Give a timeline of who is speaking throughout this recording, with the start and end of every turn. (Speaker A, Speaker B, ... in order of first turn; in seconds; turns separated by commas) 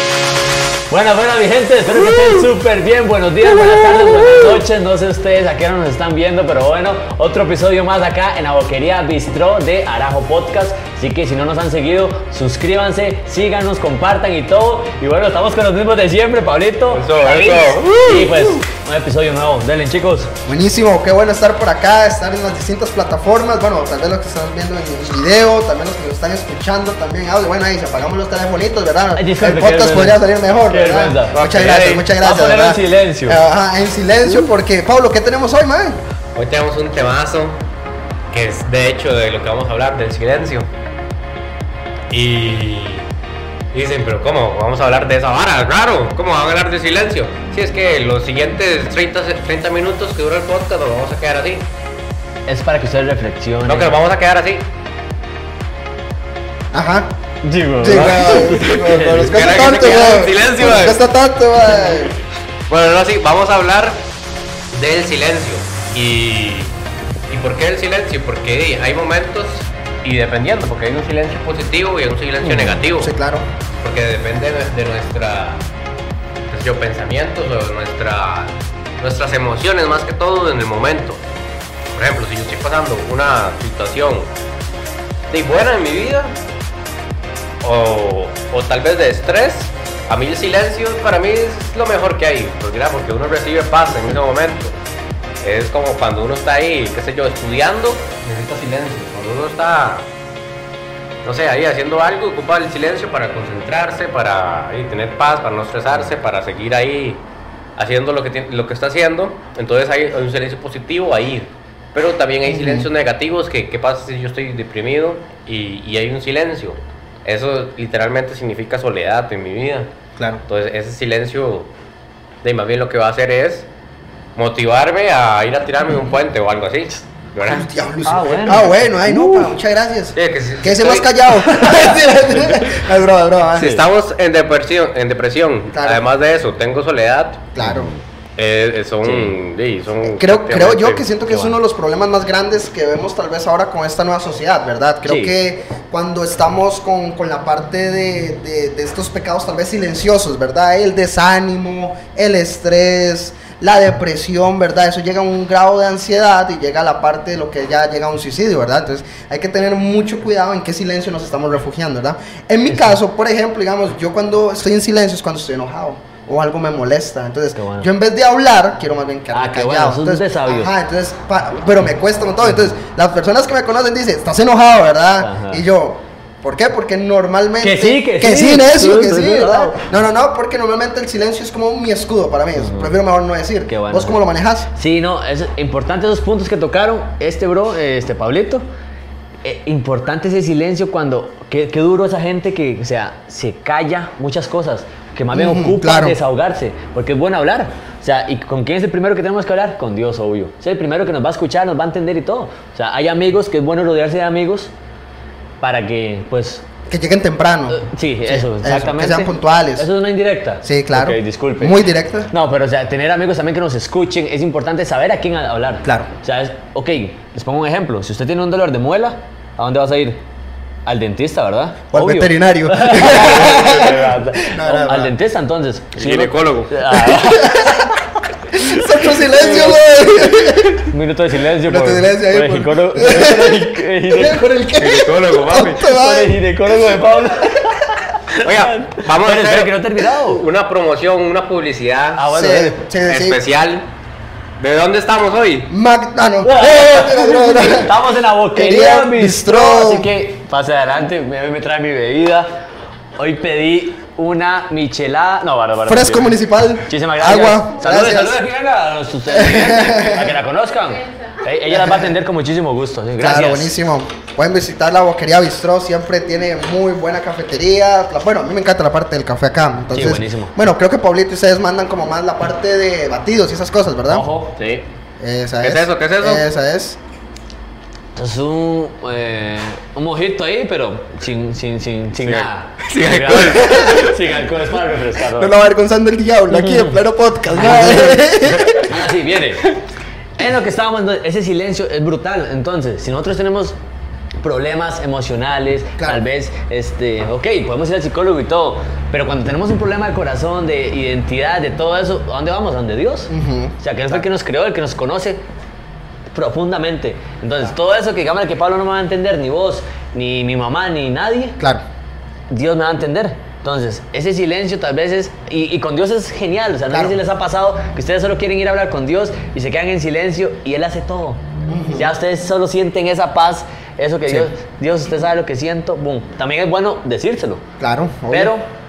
Speaker A: 0.9-20.3, Speaker B: 16.9-18.5, Speaker C: 20.5-36.0, Speaker A: 29.1-31.4, Speaker B: 31.3-32.1, Speaker A: 32.2-33.4, Speaker B: 36.3-37.6, Speaker B: 38.3-40.7, Speaker B: 42.1-43.0, Speaker B: 43.7-51.6, Speaker A: 52.5-53.9, Speaker B: 53.6-54.6, Speaker C: 56.7-57.1, Speaker A: 57.4-59.4, Speaker C: 57.8-62.1, Speaker B: 57.8-61.0, Speaker B: 62.7-64.0, Speaker B: 64.7-66.7, Speaker B: 67.3-73.1, Speaker A: 72.4-72.8, Speaker C: 73.0-73.5, Speaker B: 73.8-75.6, Speaker B: 76.5-81.2, Speaker B: 81.9-84.3, Speaker B: 85.3-86.3, Speaker B: 87.6-94.7, Speaker B: 95.4-100.0, Speaker B: 101.2-107.2, Speaker B: 107.8-119.9, Speaker C: 112.5-112.9, Speaker C: 120.2-120.4, Speaker B: 120.5-121.7, Speaker B: 122.4-123.7, Speaker B: 124.3-127.7, Speaker C: 127.4-133.7, Speaker A: 128.0-129.5, Speaker B: 130.2-132.1, Speaker B: 133.5-137.5, Speaker A: 133.6-133.8, Speaker C: 135.7-136.0, Speaker C: 137.5-137.9, Speaker A: 137.6-138.0, Speaker B: 138.4-141.0, Speaker A: 139.0-139.3, Speaker C: 140.0-184.7, Speaker A: 141.3-141.6, Speaker A: 145.1-145.3, Speaker A: 162.7-163.0, Speaker A: 167.6-167.9, Speaker A: 169.3-170.7, Speaker A: 175.2-175.6, Speaker A: 177.6-179.9, Speaker A: 182.6-182.9, Speaker A: 183.7-184.2, Speaker A: 184.7-188.6, Speaker A: 189.4-204.7, Speaker C: 195.3-196.2, Speaker A: 205.6-206.6, Speaker C: 206.9-209.9, Speaker A: 207.7-220.2, Speaker C: 210.6-212.3, Speaker A: 220.8-227.9, Speaker C: 221.9-225.1, Speaker B: 226.0-227.1, Speaker C: 227.1-227.9, Speaker C: 228.5-230.9, Speaker A: 229.2-229.8, Speaker A: 230.9-234.4, Speaker C: 231.7-237.0, Speaker B: 234.8-235.8, Speaker A: 235.8-240.4, Speaker B: 238.4-242.2, Speaker A: 242.2-242.8, Speaker C: 242.3-243.4, Speaker B: 243.0-243.8, Speaker B: 244.6-245.7, Speaker C: 245.7-247.9, Speaker A: 246.4-252.5, Speaker C: 248.5-250.1, Speaker A: 253.2-256.3, Speaker C: 255.8-258.4, Speaker A: 256.9-263.7, Speaker C: 259.3-260.3, Speaker C: 261.7-262.1, Speaker C: 263.2-274.3, Speaker A: 269.9-270.5, Speaker A: 274.1-274.6, Speaker B: 274.6-274.8, Speaker C: 275.2-277.0, Speaker B: 275.6-276.4, Speaker A: 278.1-285.5, Speaker B: 282.2-284.2, Speaker C: 285.3-288.9, Speaker A: 287.6-289.7, Speaker A: 290.4-293.8, Speaker A: 294.4-305.4, Speaker C: 296.0-296.2, Speaker C: 303.3-303.8, Speaker A: 306.3-311.6, Speaker A: 312.5-321.4, Speaker C: 316.9-317.1, Speaker C: 321.7-322.1, Speaker A: 321.9-327.6, Speaker C: 327.8-328.5, Speaker A: 328.3-328.7